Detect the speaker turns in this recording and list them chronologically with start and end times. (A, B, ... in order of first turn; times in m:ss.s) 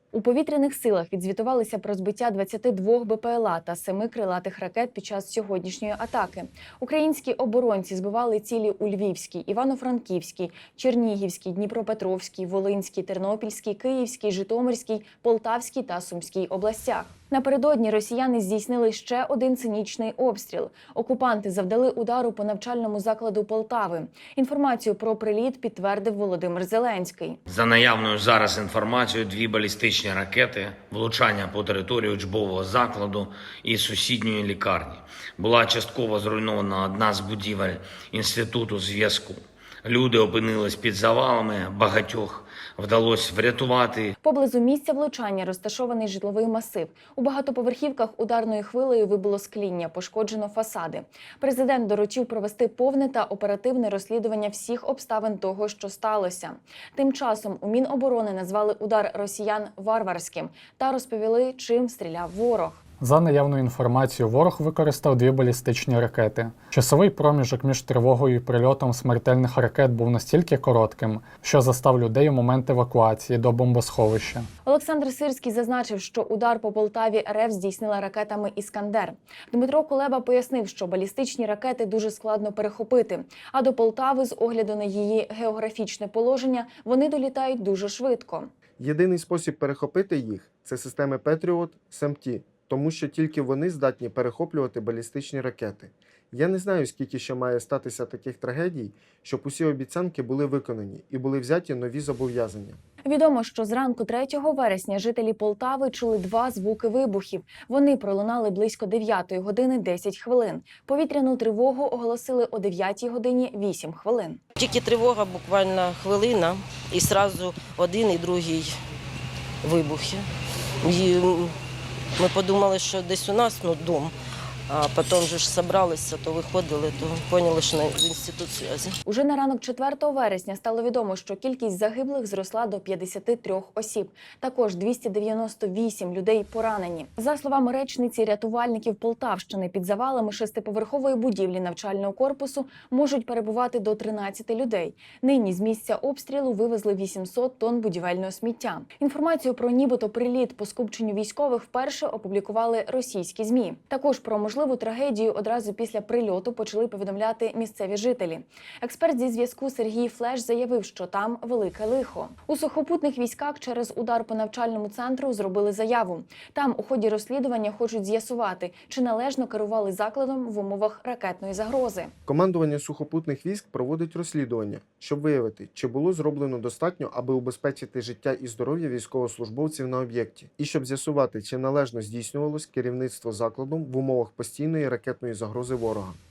0:00.1-0:27.4 A
0:27.5-0:44.1 B
0:44.2-1:02.8 A
1:03.0-1:14.5 C
1:14.6-1:28.5 A
1:28.8-1:42.8 D
1:43.0-1:54.4 A
1:54.6-1:58.8 E
1:59.6-2:00.2 E
2:00.8-2:01.5 E
2:02.2-2:04.1 E
2:04.7-2:09.0 E
2:09.0-2:52.1 A
2:52.2-3:06.2 D